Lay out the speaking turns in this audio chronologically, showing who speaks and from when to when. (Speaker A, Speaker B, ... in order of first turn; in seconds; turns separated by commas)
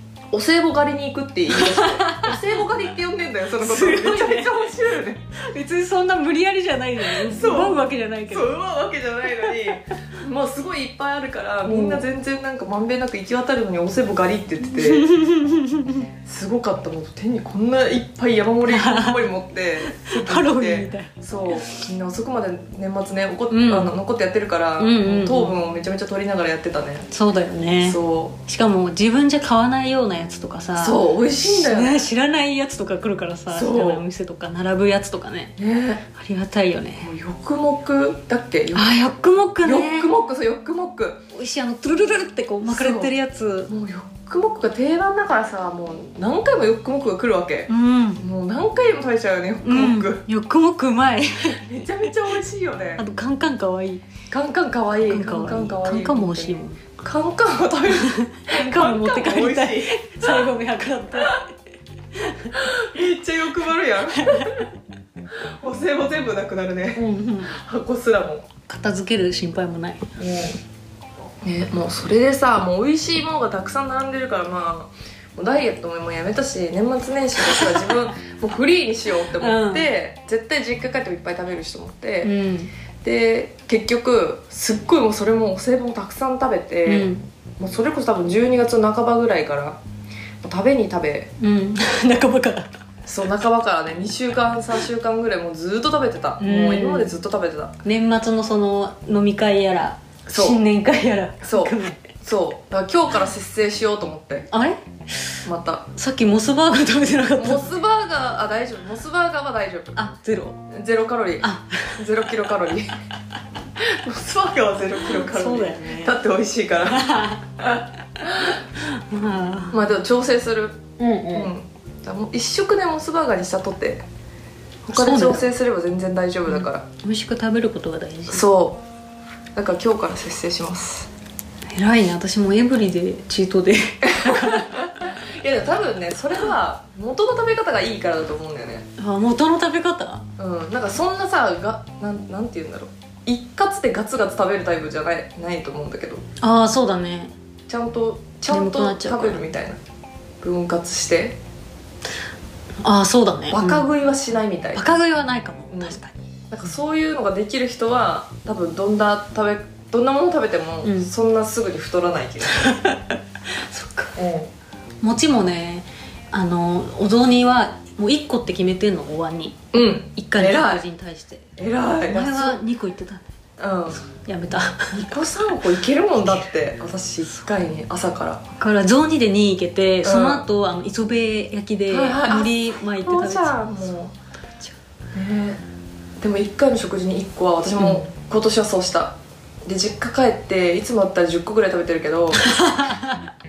Speaker A: 0.3-5.2, Speaker B: 1.5-2.4, Speaker B: 3.6-4.7, Speaker B: 5.3-8.5, Speaker A: 7.0-15.1, Speaker B: 9.5-9.8, Speaker B: 11.7-12.0, Speaker B: 14.6-16.1, Speaker A: 16.2-27.1, Speaker B: 18.7-19.2, Speaker B: 19.9-21.1, Speaker B: 23.5-23.9, Speaker B: 24.8-25.6, Speaker B: 27.1-35.6, Speaker A: 27.8-28.4, Speaker A: 30.8-32.0, Speaker A: 33.5-34.0, Speaker A: 35.6-36.0, Speaker B: 36.1-37.1, Speaker A: 37.0-38.9, Speaker B: 38.7-40.1, Speaker A: 39.6-41.2, Speaker B: 41.3-43.7, Speaker A: 42.7-43.1, Speaker A: 43.7-50.2, Speaker B: 47.7-48.2, Speaker B: 49.6-51.6, Speaker A: 51.6-53.0, Speaker B: 53.0-54.0, Speaker A: 54.3-60.5, Speaker B: 55.1-56.8, Speaker B: 57.9-61.5, Speaker B: 62.1-62.6, Speaker A: 62.5-64.7, Speaker B: 64.1-64.7, Speaker A: 65.3-68.5, Speaker B: 66.9-67.5, Speaker B: 68.7-70.1, Speaker A: 70.2-70.6, Speaker A: 71.4-82.3, Speaker B: 77.4-77.9, Speaker B: 79.3-79.9, Speaker B: 82.2-82.7, Speaker A: 83.0-89.8, Speaker B: 86.8-87.2, Speaker A: 90.4-91.3, Speaker B: 91.4-92.7, Speaker A: 93.0-97.8, Speaker B: 96.4-97.1, Speaker B: 97.8-102.1, Speaker A: 100.3-100.6, Speaker A: 101.4-104.5, Speaker B: 104.5-105.4, Speaker A: 105.4-105.9, Speaker B: 106.0-107.7, Speaker A: 107.4-110.1, Speaker B: 110.0-110.6, Speaker A: 110.7-112.9, Speaker B: 111.4-112.0, Speaker A: 113.8-117.0, Speaker B: 115.1-116.2, Speaker B: 116.9-117.5, Speaker A: 117.6-118.6, Speaker B: 118.4-119.8, Speaker A: 119.7-124.0, Speaker B: 121.0-121.5, Speaker B: 124.9-125.5, Speaker A: 124.9-126.9, Speaker B: 126.5-128.5, Speaker A: 128.3-128.8, Speaker A: 129.5-131.1, Speaker B: 131.7-134.9, Speaker A: 134.0-138.8, Speaker B: 139.0-140.2, Speaker A: 140.4-146.2, Speaker B: 146.4-147.3, Speaker A: 147.7-149.8, Speaker B: 148.5-149.4, Speaker A: 150.4-151.4, Speaker B: 152.8-153.9, Speaker A: 153.5-154.8, Speaker B: 154.7-156.2, Speaker A: 155.7-156.0, Speaker A: 156.5-162.7, Speaker B: 160.8-161.1, Speaker B: 162.5-164.2, Speaker A: 164.2-164.5, Speaker B: 165.0-171.5, Speaker A: 169.7-170.8, Speaker A: 171.6-172.6, Speaker B: 172.1-173.3, Speaker A: 173.6-174.0, Speaker B: 174.0-175.1, Speaker A: 174.9-178.4, Speaker B: 178.6-183.6, Speaker A: 180.0-180.4, Speaker A: 181.9-184.1, Speaker A: 185.1-185.6, Speaker A: 186.2-192.5, Speaker B: 187.8-188.1, Speaker B: 192.3-193.3